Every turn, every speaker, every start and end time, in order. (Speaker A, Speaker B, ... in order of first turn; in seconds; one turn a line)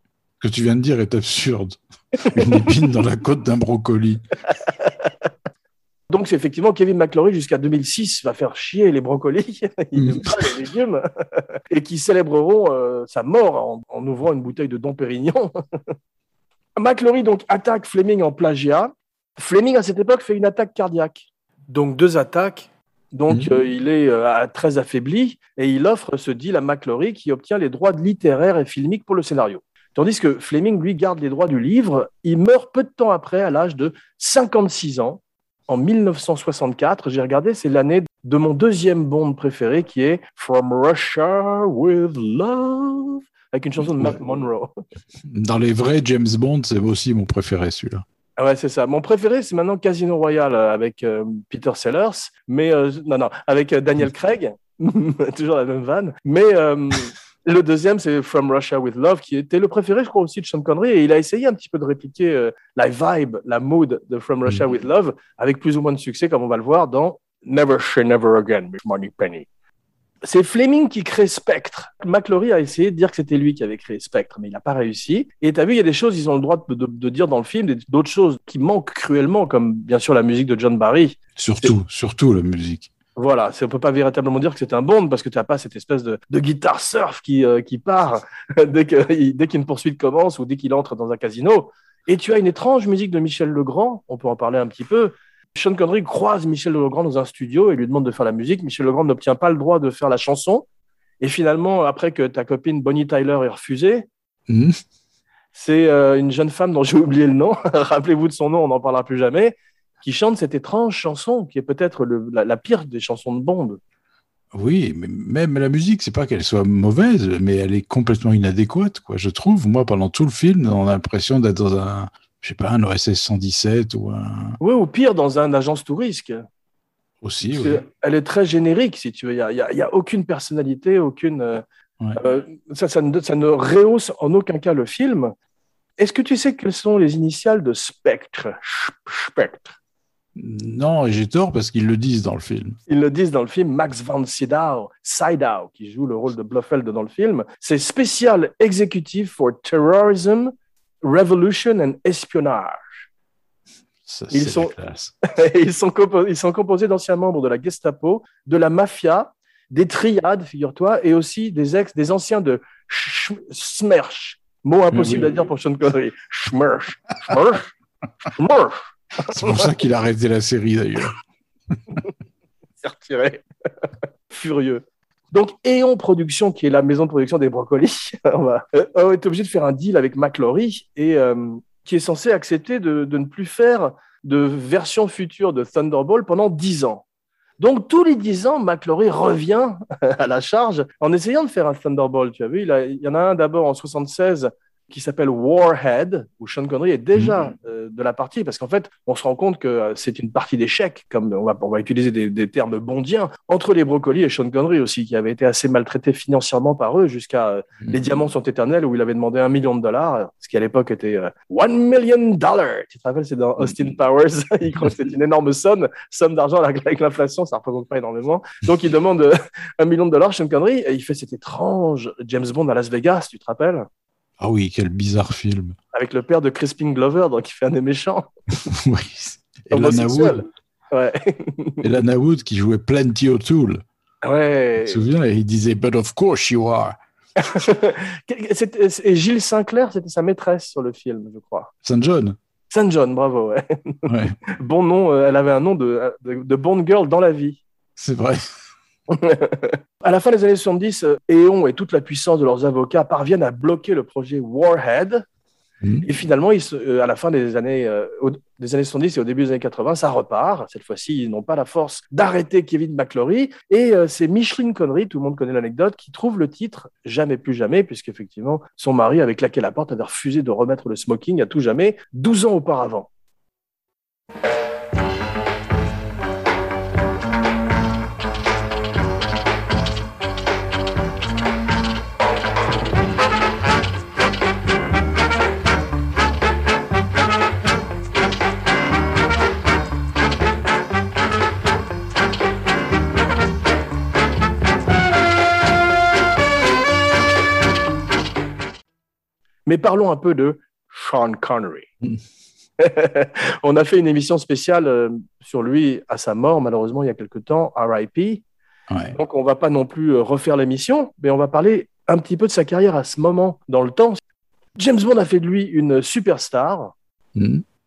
Speaker A: 0.4-4.2
Speaker B: 2.2-2.6
Speaker B: 6.1-11.1
Speaker A: 10.0-10.4
Speaker B: 11.7-15.6
Speaker B: 16.8-44.8
Speaker A: 45.3-48.0
Speaker B: 48.4-69.5
Speaker B: 70.2-81.8
Speaker A: 81.4-82.9
Speaker B: 83.2-100.7
Speaker B: 101.2-104.1
Speaker A: 104.5-104.8
Speaker B: 105.5-113.8
Speaker A: 114.5-124.6
Speaker B: 124.6-126.5
Speaker A: 127.2-127.8
Speaker B: 127.6-131.6
Speaker B: 132.2-135.3
Speaker B: 136.0-139.7
Speaker A: 140.4-142.8
Speaker B: 142.9-150.5
Speaker B: 151.0-153.0
Speaker A: 154.1-155.1
Speaker B: 154.3-154.7
Speaker B: 155.3-167.7
Speaker A: 164.9-165.3
Speaker B: 168.4-169.7
Speaker A: 169.3-171.1
Speaker B: 172.8-187.0
Speaker B: 187.6-223.9
Speaker A: 224.4-225.8
Speaker B: 225.9-228.3
Speaker A: 228.7-230.4
Speaker B: 229.7-231.8
Speaker A: 231.8-233.8
Speaker B: 234.2-235.0
Speaker A: 234.8-237.0
Speaker B: 237.4-241.7
Speaker A: 241.8-242.4
Speaker B: 242.7-247.6
Speaker A: 244.1-244.4
Speaker A: 248.0-248.4
Speaker B: 249.1-255.2
Speaker A: 255.8-256.1
Speaker B: 256.0-273.1
Speaker B: 299.7-301.9
Speaker B: 302.8-308.4
Speaker A: 308.9-309.2
Speaker B: 309.1-314.2
Speaker B: 314.8-316.9
Speaker A: 317.4-317.6